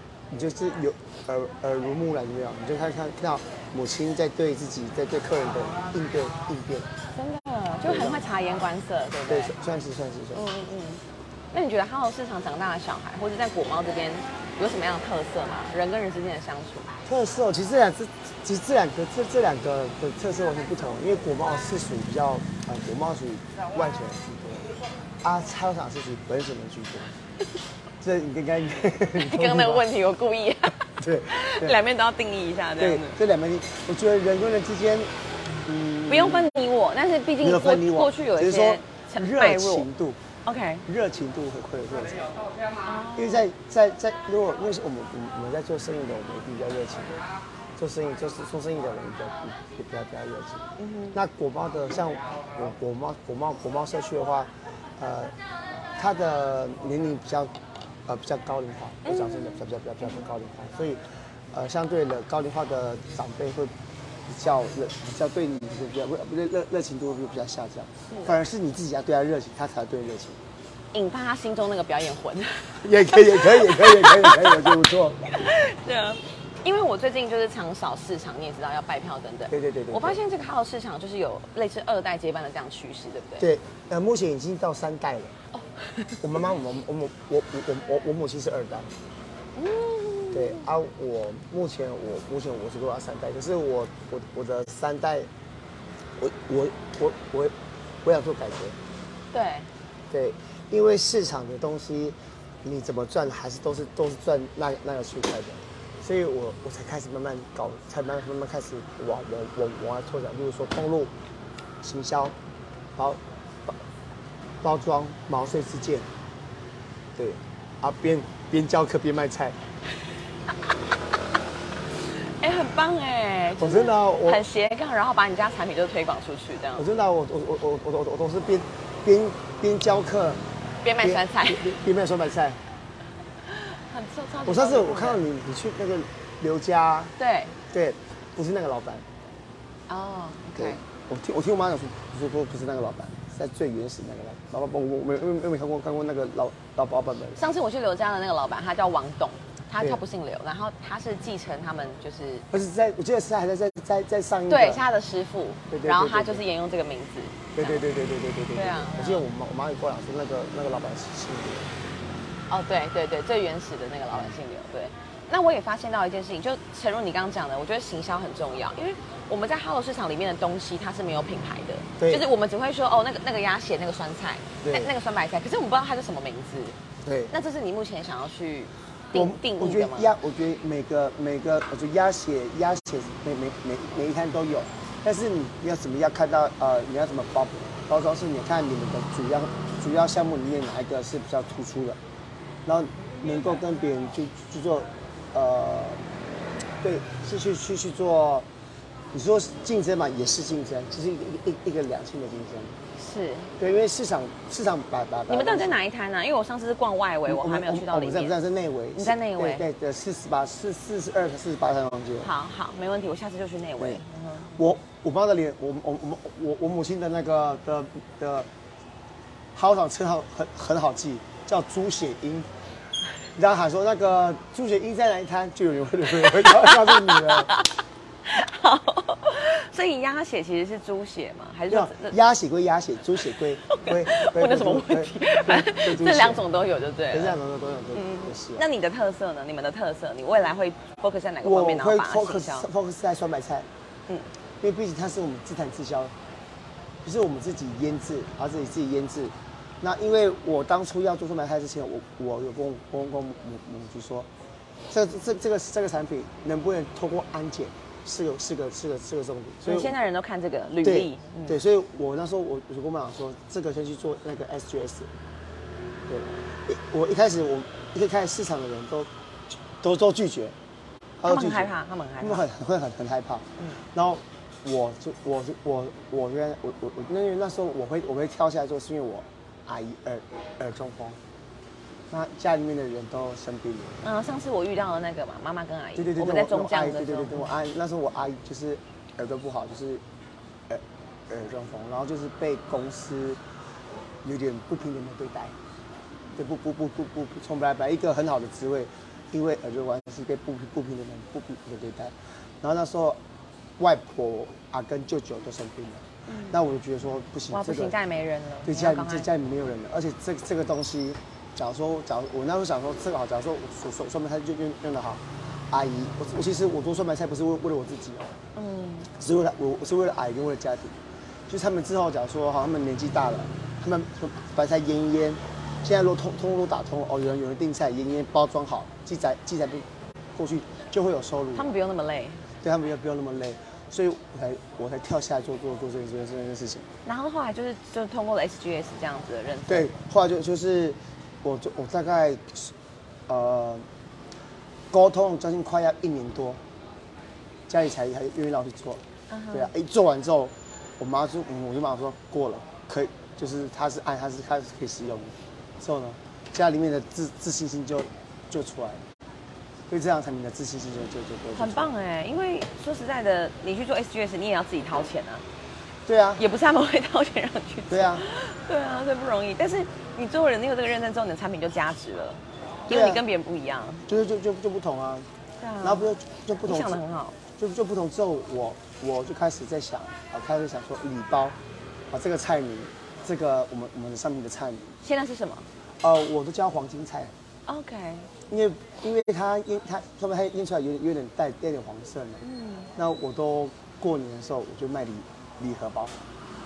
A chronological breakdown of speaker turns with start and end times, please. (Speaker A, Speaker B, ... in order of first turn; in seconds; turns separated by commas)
Speaker A: 0.3-6.9, Speaker B: 7.1-9.5, Speaker A: 7.8-8.3, Speaker A: 9.3-10.5, Speaker B: 10.3-16.9, Speaker A: 17.1-27.1, Speaker A: 28.0-29.9, Speaker B: 29.2-33.2, Speaker A: 31.0-31.8, Speaker A: 32.8-35.1, Speaker A: 35.6-36.5, Speaker B: 36.1-39.9, Speaker A: 37.4-40.2, Speaker B: 40.5-40.9, Speaker A: 40.9-42.3, Speaker B: 42.8-43.5, Speaker A: 43.1-47.1, Speaker A: 47.8-55.3, Speaker B: 50.8-51.2, Speaker A: 56.0-57.5, Speaker A: 58.1-61.0, Speaker B: 59.0-59.6, Speaker A: 61.5-63.7, Speaker A: 64.3-70.4, Speaker B: 70.9-74.7, Speaker A: 72.8-75.2, Speaker B: 75.3-83.5, Speaker A: 79.5-80.2, Speaker A: 83.4-85.3, Speaker B: 85.5-86.2, Speaker A: 86.2-88.9, Speaker B: 89.6-90.6, Speaker A: 90.3-95.3, Speaker A: 96.2-98.8, Speaker B: 99.3-99.7, Speaker A: 100.1-111.1, Speaker A: 111.8-112.3, Speaker A: 113.0-113.8, Speaker A: 114.6-116.1, Speaker A: 117.2-119.6, Speaker B: 122.1-126.9, Speaker A: 123.5-124.4, Speaker A: 126.8-130.4, Speaker B: 130.8-131.7, Speaker A: 131.0-132.6, Speaker B: 133.4-135.2, Speaker A: 134.4-137.2, Speaker B: 137.2-137.6, Speaker A: 137.7-139.1, Speaker B: 139.9-140.8, Speaker A: 140.6-147.4, Speaker B: 147.4-152.5, Speaker A: 152.5-154.8, Speaker B: 154.5-157.8, Speaker A: 155.7-156.4, Speaker A: 157.6-161.7, Speaker B: 158.6-159.2, Speaker B: 162.5-176.8, Speaker A: 164.1-164.4, Speaker A: 172.0-172.3, Speaker A: 174.6-174.9, Speaker A: 177.0-177.3, Speaker B: 177.3-180.1, Speaker A: 179.1-192.0, Speaker A: 192.7-196.0, Speaker A: 196.8-198.5, Speaker A: 199.1-202.7, Speaker B: 203.0-203.5, Speaker A: 203.6-205.8, Speaker B: 205.3-208.4, Speaker A: 207.3-212.3, Speaker B: 208.9-209.7, Speaker B: 212.2-214.6, Speaker A: 214.5-218.5, Speaker A: 219.5-222.5, Speaker A: 223.4-227.5, Speaker B: 226.4-232.2, Speaker A: 231.7-236.4, Speaker B: 233.7-237.4, Speaker A: 237.1-238.6, Speaker B: 237.9-242.7, Speaker A: 241.4-243.7, Speaker A: 244.6-246.1, Speaker A: 247.0-254.3, Speaker A: 254.9-260.0, Speaker B: 259.6-261.6, Speaker A: 260.8-265.1, Speaker A: 266.1-269.1, Speaker A: 269.8-270.6, Speaker A: 271.2-281.2, Speaker B: 271.2-272.4, Speaker A: 282.1-284.0, Speaker B: 284.0-287.5, Speaker A: 286.0-290.0, Speaker A: 290.7-293.4, Speaker A: 294.2-295.5, Speaker A: 296.4-303.2, Speaker A: 303.8-308.0, Speaker B: 306.3-306.6, Speaker B: 307.5-309.3, Speaker A: 308.6-318.4, Speaker B: 318.6-319.1, Speaker A: 319.1-321.0, Speaker A: 321.5-331.7, Speaker B: 331.6-332.4, Speaker A: 332.6-336.9, Speaker B: 337.1-339.9, Speaker A: 339.7-342.7, Speaker A: 343.3-343.9, Speaker A: 344.9-346.6, Speaker A: 347.7-359.0, Speaker B: 349.3-349.7, Speaker A: 359.9-361.9, Speaker B: 361.6-365.4, Speaker A: 366.1-366.4, Speaker B: 366.4-374.1, Speaker A: 367.9-368.2, Speaker A: 372.9-373.2, Speaker A: 374.1-375.3, Speaker B: 375.6-377.4, Speaker A: 375.8-377.0, Speaker A: 377.6-381.6, Speaker A: 382.1-384.9, Speaker B: 385.0-385.7, Speaker A: 386.0-387.3, Speaker B: 387.7-388.3, Speaker A: 388.5-392.4, Speaker B: 392.4-392.9, Speaker A: 393.0-396.2